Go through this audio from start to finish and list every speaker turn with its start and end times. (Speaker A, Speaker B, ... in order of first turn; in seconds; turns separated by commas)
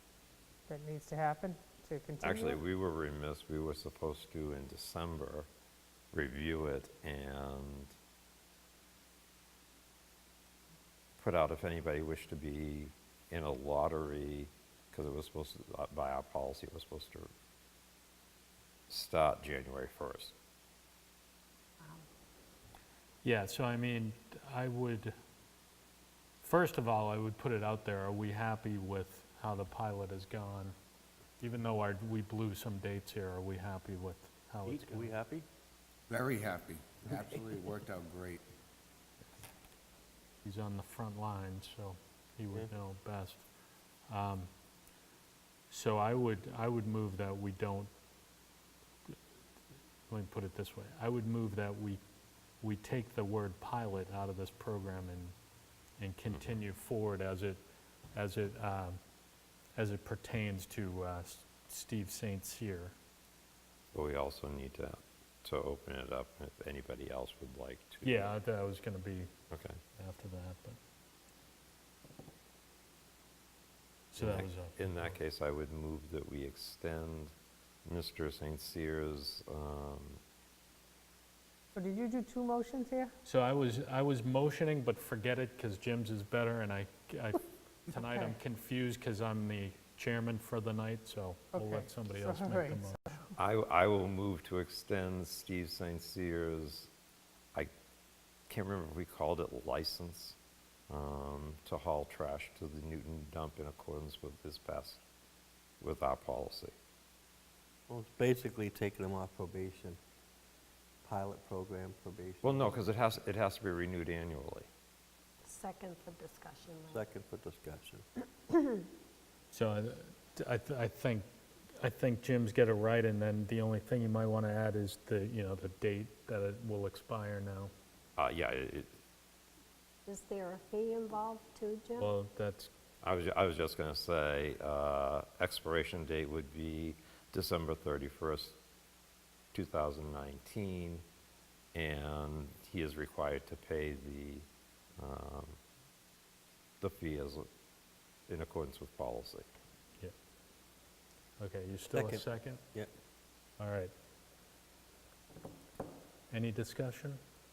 Speaker A: 0.7-2.6, Speaker B: 2.2-5.5, Speaker B: 6.1-7.9, Speaker B: 11.2-17.3, Speaker B: 18.9-20.3, Speaker C: 23.2-25.1, Speaker C: 26.4-30.8, Speaker C: 31.4-35.1, Speaker D: 34.6-35.5, Speaker E: 36.1-38.4, Speaker C: 40.4-43.4, Speaker C: 44.1-44.5, Speaker C: 45.7-47.9, Speaker C: 50.1-52.0, Speaker C: 52.6-55.3, Speaker C: 56.0-57.6, Speaker C: 58.1-59.0, Speaker C: 59.8-63.0, Speaker B: 63.9-68.2, Speaker C: 68.0-69.3, Speaker B: 69.5-69.8, Speaker C: 70.0-70.8, Speaker C: 74.1-74.9, Speaker B: 74.2-77.3, Speaker B: 77.9-80.2, Speaker A: 81.8-83.1, Speaker C: 83.2-93.1, Speaker A: 91.5-93.4, Speaker B: 93.4-96.9, Speaker B: 98.5-100.4, Speaker B: 100.9-105.0, Speaker B: 105.8-106.8, Speaker D: 107.9-110.0, Speaker D: 111.0-112.8, Speaker B: 112.4-114.7, Speaker F: 115.4-117.0, Speaker D: 116.9-118.0, Speaker F: 118.5-118.8, Speaker C: 119.5-121.2, Speaker C: 121.8-127.7, Speaker B: 128.2-128.9, Speaker F: 130.1-132.1, Speaker C: 132.0-132.7, Speaker B: 133.0-138.6, Speaker B: 139.5-141.0, Speaker B: 141.7-144.5, Speaker B: 145.0-145.6, Speaker B: 146.8-147.5, Speaker B: 148.3-149.5, Speaker C: 151.4-152.6, Speaker D: 151.9-152.9, Speaker C: 153.6-153.9, Speaker C: 156.3-157.2